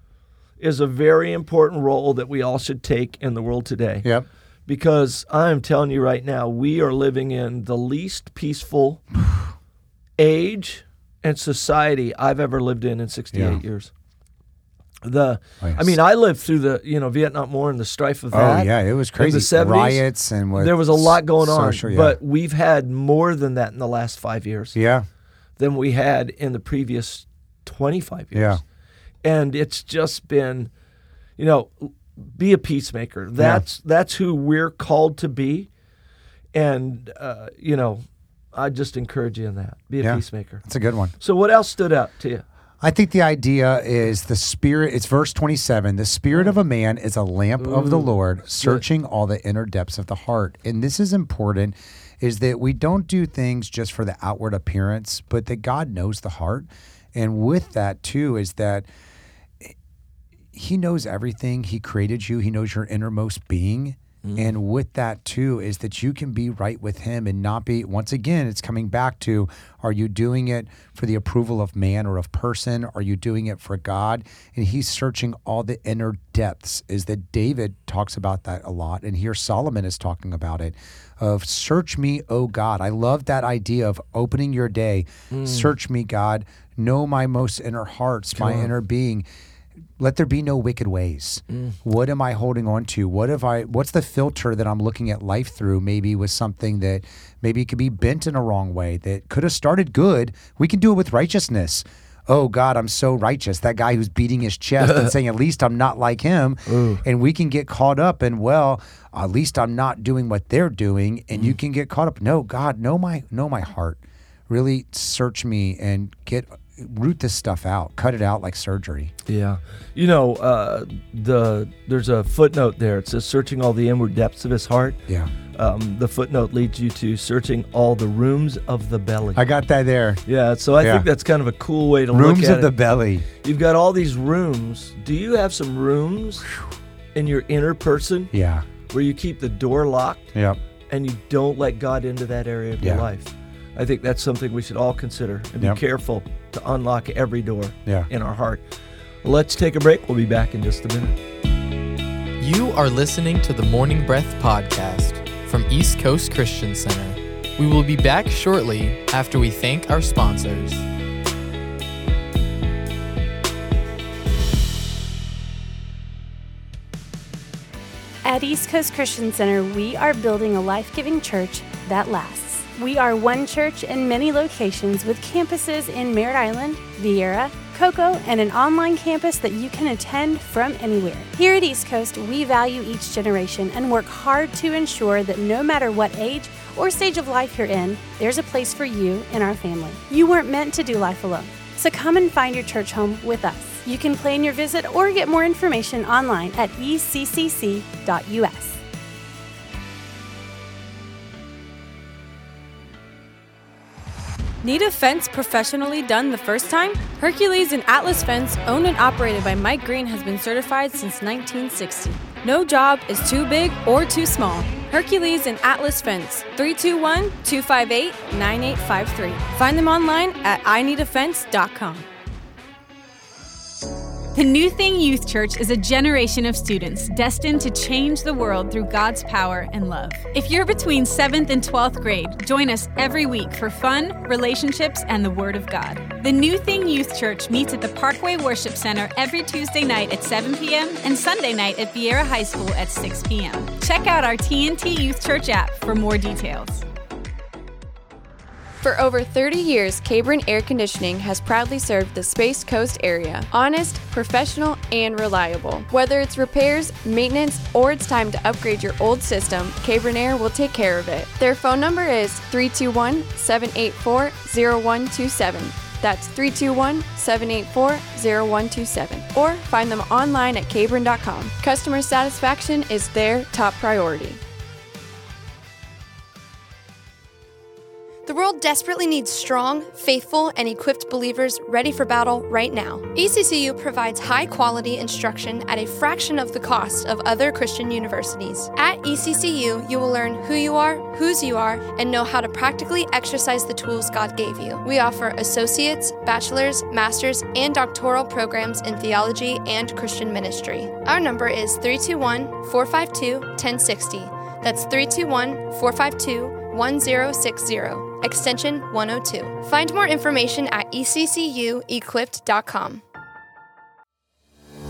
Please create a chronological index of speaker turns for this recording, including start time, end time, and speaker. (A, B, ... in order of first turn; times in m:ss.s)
0:00.6-0:04.1 A
0:04.7-0:09.0 A
0:09.2-0:09.5 B
0:10.2-0:13.9 A
0:13.3-0:13.6 B
0:15.0-0:24.8 A
0:15.6-0:16.0 B
0:18.3-0:22.2 B
0:24.8-0:25.1 B
0:25.6-0:28.6 A
0:28.3-0:28.6 B
0:29.2-0:30.7 A
0:31.4-0:35.7 A
0:33.4-0:33.6 B
0:36.5-0:40.6 A
0:40.0-0:41.1 B
0:41.2-0:42.4 A
0:42.8-0:58.9 B
0:47.6-0:48.8 A
1:00.5-1:29.2 B
1:04.2-1:04.5 A
1:25.3-1:25.7 A
1:28.4-1:28.7 A
1:30.0-1:59.1 B
1:31.5-1:31.8 A
1:44.8-1:45.1 A
1:46.7-1:47.0 A
1:59.3-2:05.0 A
2:05.6-2:09.4 A
2:09.4-2:10.2 B
2:10.3-2:12.7 A
2:10.8-2:11.1 B
2:12.1-2:13.3 B
2:13.4-2:16.5 A
2:17.2-2:18.3 A
2:18.3-2:18.7 B
2:18.9-2:20.3 A
2:20.3-2:20.6 B
2:20.9-2:28.6 A
2:22.8-2:23.0 B
2:29.2-2:31.2 A
2:32.4-2:40.8 C
2:48.2-3:18.8 D
3:24.6-3:42.1 E
3:44.3-4:06.8 F
4:08.8-4:34.4 G
4:38.3-5:13.0 H